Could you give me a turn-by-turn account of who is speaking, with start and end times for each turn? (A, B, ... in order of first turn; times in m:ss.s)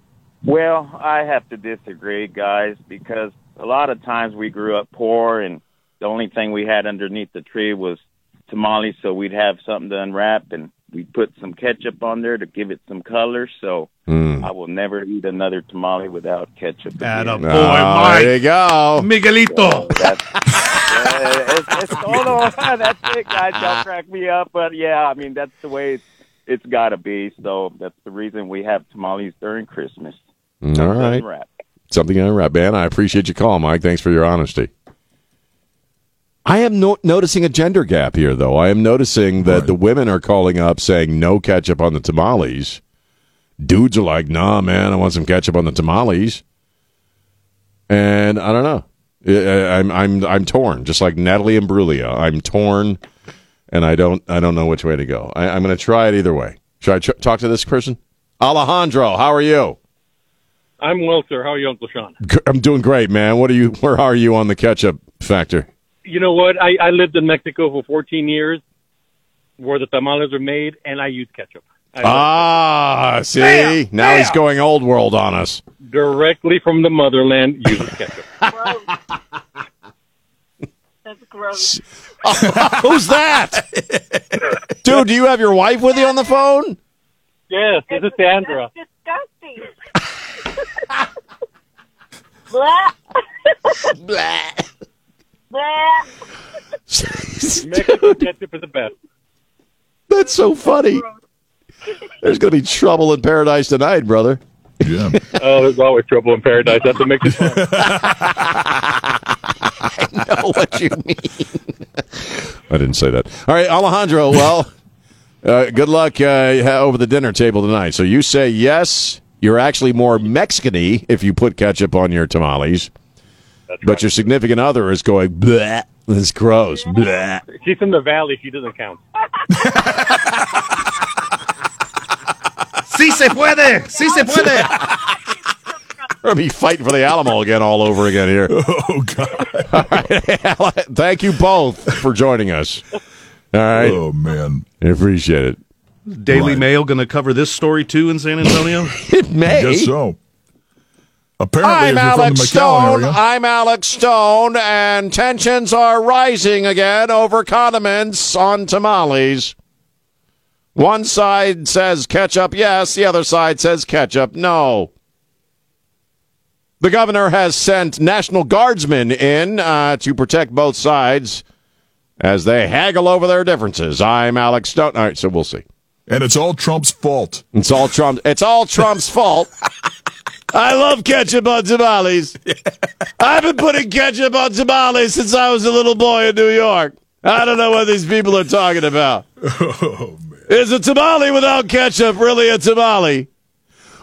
0:00.4-0:17.6 A
0:14.1-0:14.5 B
0:17.0-0:18.4 C
0:17.4-0:19.1 B
0:19.0-0:20.0 C
0:19.2-0:30.2 A
0:30.6-0:31.2 B
0:30.7-0:31.5 A
0:31.9-0:34.7 B
0:36.5-0:42.8 B
0:39.4-0:39.7 D
0:43.6-0:46.4 B
0:47.9-0:53.0 B
0:53.7-0:59.8 B
1:00.8-1:02.2 E
1:02.2-1:05.7 B
1:06.1-1:08.6 E
1:09.6-1:12.5 E
1:12.0-1:15.6 B
1:15.9-1:18.3 E
1:21.1-1:21.5 F
1:21.6-1:23.7 B
1:24.8-1:26.8 B
1:27.5-1:28.7 E
1:27.9-1:29.6 F
1:32.5-1:32.9 F
1:34.2-1:34.5 B
1:35.5-1:36.0 F
1:36.9-1:38.3 B
1:37.6-1:38.9 E
1:40.1-1:41.0 B
1:42.2-1:44.4 B
1:44.8-1:45.3 D
1:45.4-1:48.0 E
1:47.2-1:48.4 D
1:49.8-1:51.6 B
1:52.2-1:54.7 B
1:55.4-2:02.9 B
2:03.7-2:04.1 E
2:03.8-2:07.4 B
2:07.5-2:09.0 E
2:09.6-2:10.2 D
2:12.9-2:14.9 C
2:14.2-2:15.0 B
2:16.2-2:18.6 B
2:18.5-2:19.9 D
2:19.7-2:22.8 B
2:23.5-2:24.0 B
2:23.8-2:24.7 D
2:24.8-2:25.6 B
2:26.1-2:29.0 C
2:26.3-2:26.7 D
2:29.0-2:29.9 B
2:29.4-2:30.2 D
2:31.4-2:33.2 D
2:31.6-2:39.6 B
2:40.8-2:44.9 B
2:46.8-2:51.4 B
2:52.2-2:55.6 B
2:56.1-2:57.5 D
2:57.5-2:59.5 B
3:00.5-3:02.4 B
3:03.2-3:09.2 B
3:09.4-3:10.4 D
3:10.5-3:13.3 B